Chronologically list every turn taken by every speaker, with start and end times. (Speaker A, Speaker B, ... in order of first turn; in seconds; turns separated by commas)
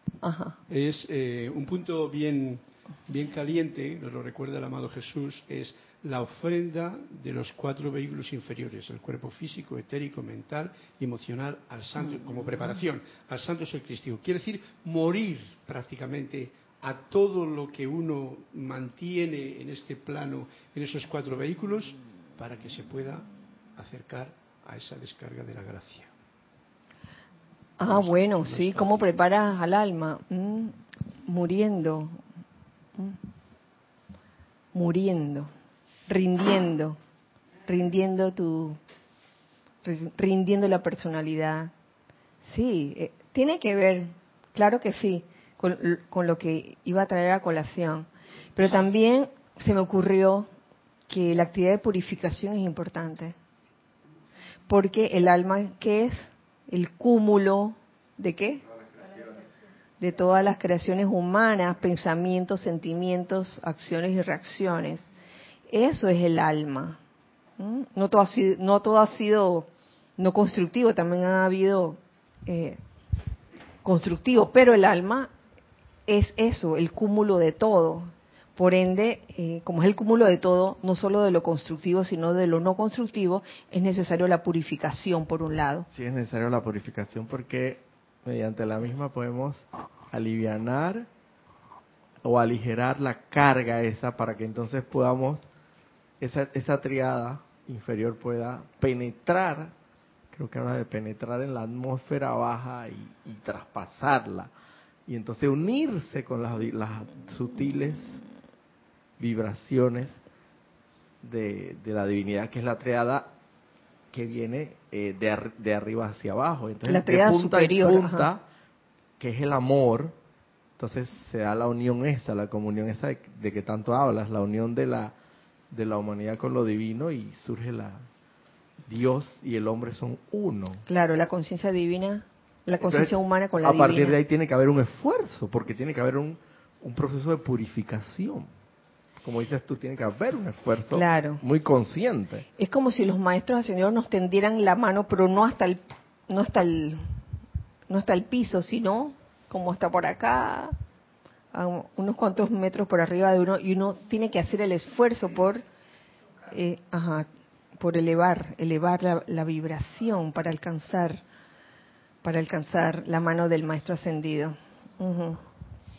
Speaker A: 0.2-0.6, Speaker B: 0.7-26.1, Speaker A: 27.8-32.2, Speaker B: 27.9-29.0, Speaker A: 34.7-35.5, Speaker A: 36.1-37.0, Speaker A: 37.7-38.8, Speaker A: 39.8-41.7, Speaker A: 42.4-50.5, Speaker A: 51.1-53.4, Speaker A: 54.7-58.6, Speaker A: 60.0-65.1, Speaker A: 65.7-67.0, Speaker A: 67.6-72.8, Speaker A: 73.8-75.3, Speaker A: 76.1-85.9, Speaker C: 85.9-91.1, Speaker C: 92.2-95.4, Speaker C: 96.2-99.7, Speaker C: 100.3-104.5, Speaker C: 105.1-108.2, Speaker C: 109.2-110.2, Speaker C: 111.2-113.3, Speaker C: 114.1-118.5, Speaker A: 116.8-118.3, Speaker C: 119.2-120.2, Speaker C: 120.8-125.2, Speaker C: 125.7-128.1, Speaker C: 128.9-130.8, Speaker A: 130.9-134.2, Speaker C: 132.8-138.5, Speaker C: 139.2-142.5, Speaker A: 140.9-141.4, Speaker A: 142.6-147.0, Speaker A: 147.9-150.7, Speaker A: 151.5-155.6, Speaker A: 156.5-161.2, Speaker A: 162.2-165.4